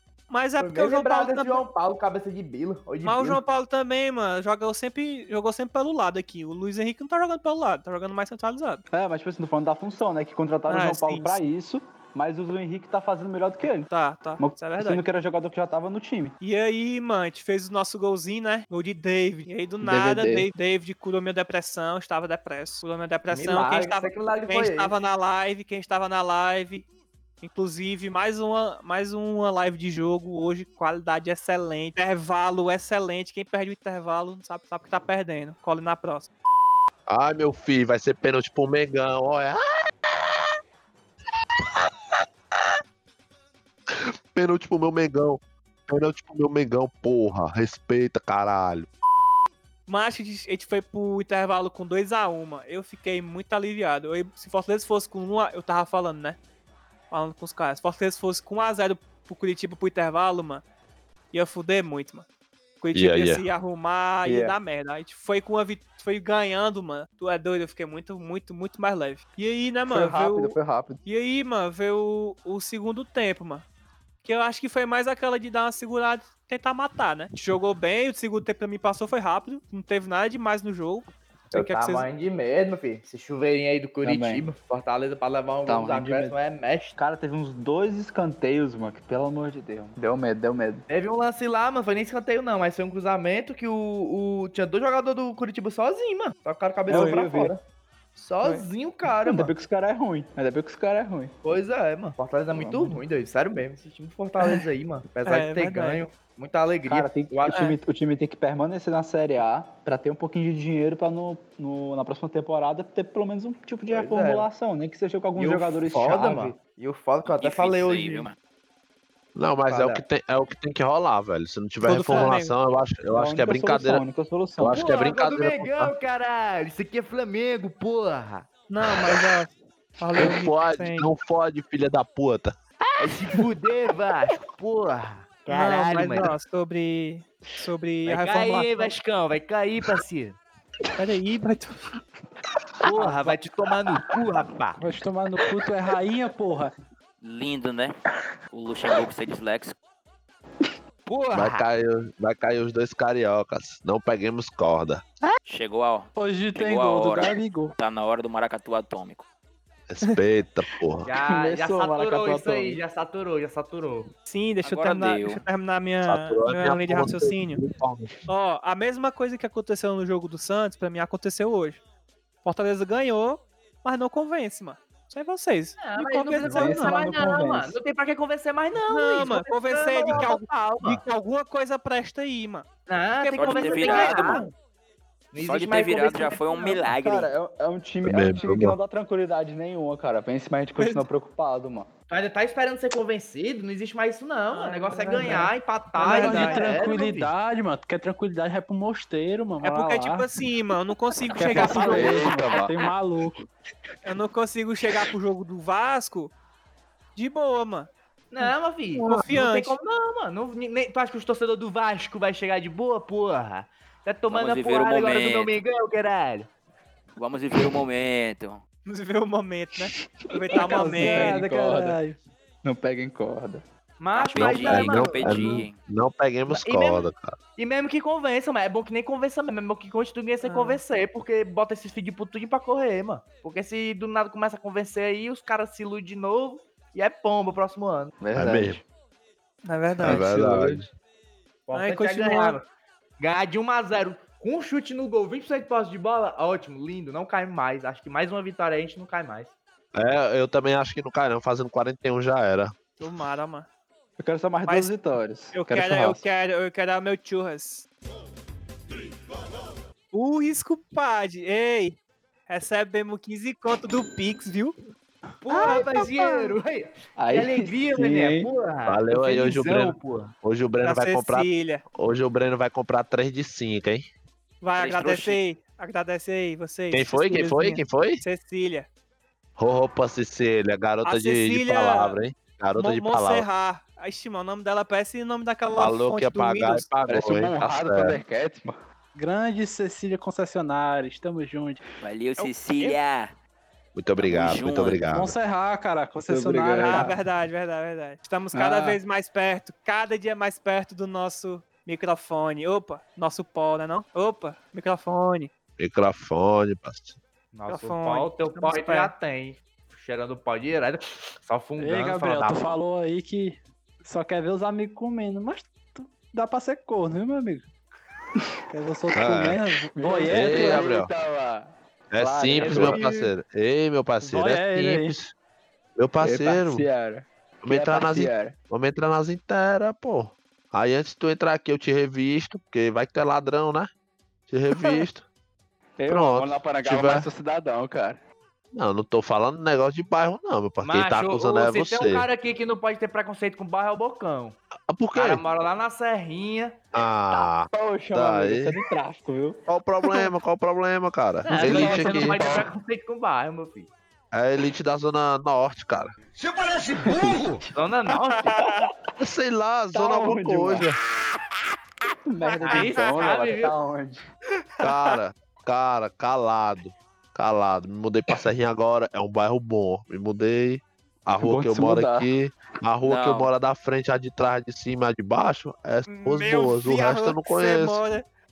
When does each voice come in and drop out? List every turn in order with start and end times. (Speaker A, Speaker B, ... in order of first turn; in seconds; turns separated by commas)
Speaker A: 0.3-1.6, Speaker B: 0.6-3.4, Speaker A: 3.0-8.8, Speaker C: 8.9-13.9, Speaker A: 10.7-11.5, Speaker A: 13.9-15.0, Speaker C: 14.4-16.4, Speaker A: 16.4-26.9, Speaker C: 19.8-20.5, Speaker B: 23.3-24.9, Speaker A: 27.4-36.3, Speaker D: 37.1-40.5, Speaker D: 43.9-48.9, Speaker A: 49.9-56.4, Speaker A: 57.1-60.6, Speaker A: 61.3-62.2, Speaker A: 62.8-73.6, Speaker D: 62.9-63.4, Speaker C: 64.2-64.6, Speaker C: 69.9-71.0, Speaker A: 74.2-82.1, Speaker B: 81.5-87.0, Speaker C: 84.0-84.5, Speaker C: 85.6-86.3, Speaker C: 87.0-90.8, Speaker B: 90.9-97.6, Speaker C: 96.9-97.5, Speaker A: 96.9-97.2, Speaker B: 98.2-99.5, Speaker C: 99.2-101.3, Speaker B: 101.4-107.7, Speaker C: 102.5-103.0, Speaker A: 105.3-106.0, Speaker C: 106.9-116.6, Speaker B: 113.9-114.5, Speaker B: 115.4-118.3, Speaker E: 117.4-118.4, Speaker D: 119.4-124.0, Speaker B: 119.7-120.0, Speaker A: 121.8-122.5, Speaker C: 123.1-124.9, Speaker D: 124.6-125.9, Speaker B: 124.8-128.5, Speaker A: 128.7-131.1, Speaker D: 130.2-132.6, Speaker B: 133.0-136.3, Speaker A: 135.5-138.9, Speaker B: 138.1-140.4, Speaker A: 141.0-141.9, Speaker B: 142.8-144.8, Speaker A: 142.9-143.4, Speaker F: 144.8-146.7, Speaker E: 147.2-148.0, Speaker E: 148.5-149.8, Speaker B: 151.1-151.6, Speaker D: 151.3-155.0, Speaker E: 155.5-159.3, Speaker F: 156.1-157.8, Speaker D: 159.9-161.1, Speaker B: 161.1-164.1, Speaker C: 161.1-162.8, Speaker A: 164.3-167.6, Speaker E: 164.6-165.4, Speaker D: 166.1-168.3, Speaker A: 168.3-171.8, Speaker A: 172.4-177.0, Speaker B: 175.8-181.0, Speaker C: 176.4-177.8, Speaker A: 178.9-182.7, Speaker B: 182.9-184.5, Speaker A: 183.2-184.5, Speaker E: 183.4-184.5, Speaker B: 185.3-186.9, Speaker E: 185.4-187.3, Speaker C: 186.9-191.9, Speaker D: 188.0-188.8, Speaker A: 190.8-191.1, Speaker B: 192.1-197.3, Speaker A: 194.5-195.4, Speaker C: 195.1-195.5, Speaker A: 196.0-196.7, Speaker F: 196.1-200.3, Speaker A: 199.6-202.2, Speaker F: 201.3-203.4, Speaker C: 201.4-202.8, Speaker B: 202.0-202.6, Speaker A: 204.1-206.3, Speaker A: 207.2-207.9, Speaker B: 208.3-216.5, Speaker A: 209.0-209.8, Speaker E: 214.3-215.6, Speaker E: 217.2-218.6, Speaker A: 218.9-221.4, Speaker C: 220.5-222.0, Speaker F: 220.5-222.2, Speaker C: 222.6-223.6, Speaker B: 224.0-225.7, Speaker E: 224.2-225.8, Speaker D: 224.4-227.4, Speaker B: 226.5-238.2, Speaker A: 230.4-230.8, Speaker C: 238.2-238.8, Speaker D: 238.3-238.8, Speaker A: 239.6-240.3, Speaker D: 240.0-240.9, Speaker C: 240.0-240.8, Speaker B: 241.7-242.6, Speaker A: 241.7-242.6, Speaker B: 243.2-249.5, Speaker D: 249.9-252.7, Speaker A: 253.0-253.7, Speaker C: 254.2-256.2, Speaker A: 254.7-254.9, Speaker A: 255.5-257.9, Speaker A: 260.1-262.0, Speaker A: 262.5-264.8, Speaker B: 265.4-270.3, Speaker A: 265.5-266.5, Speaker C: 267.1-268.5, Speaker D: 268.9-274.1, Speaker A: 270.8-271.8, Speaker A: 274.6-278.9, Speaker E: 274.8-275.4, Speaker D: 276.9-278.2, Speaker D: 279.6-283.5, Speaker A: 281.1-282.2, Speaker A: 282.8-286.9, Speaker D: 285.8-288.2, Speaker C: 287.1-288.8, Speaker F: 289.1-291.8, Speaker E: 292.0-293.3, Speaker A: 292.4-293.0, Speaker D: 293.9-295.3, Speaker E: 294.2-295.0, Speaker F: 295.1-297.1, Speaker C: 296.2-297.2, Speaker A: 296.8-305.5, Speaker C: 298.5-299.0, Speaker D: 305.8-307.2, Speaker B: 307.5-312.8, Speaker A: 307.7-309.1, Speaker F: 311.8-317.7, Speaker F: 318.7-320.9, Speaker D: 319.1-319.6, Speaker C: 319.9-323.1, Speaker D: 320.3-321.1, Speaker D: 322.1-325.3, Speaker B: 322.6-323.1, Speaker F: 324.2-325.1, Speaker D: 326.0-326.8, Speaker C: 326.2-328.6, Speaker D: 327.6-333.9, Speaker D: 334.5-335.2, Speaker C: 336.0-338.2, Speaker D: 336.1-337.3, Speaker D: 338.7-342.3, Speaker B: 340.8-344.6, Speaker D: 344.9-345.4, Speaker B: 345.1-346.8, Speaker D: 346.9-348.8, Speaker C: 347.4-349.6, Speaker D: 349.7-352.4, Speaker B: 351.4-353.9, Speaker A: 351.6-352.3, Speaker C: 351.6-352.6, Speaker D: 354.3-356.1, Speaker C: 356.8-357.7, Speaker B: 357.7-358.6, Speaker A: 358.1-358.8, Speaker D: 359.2-361.0, Speaker C: 359.9-360.9, Speaker C: 362.3-364.2, Speaker A: 362.4-363.4, Speaker B: 362.6-363.8, Speaker D: 364.8-378.0, Speaker A: 364.9-365.2, Speaker C: 371.3-372.3, Speaker E: 373.0-373.5, Speaker A: 376.1-378.2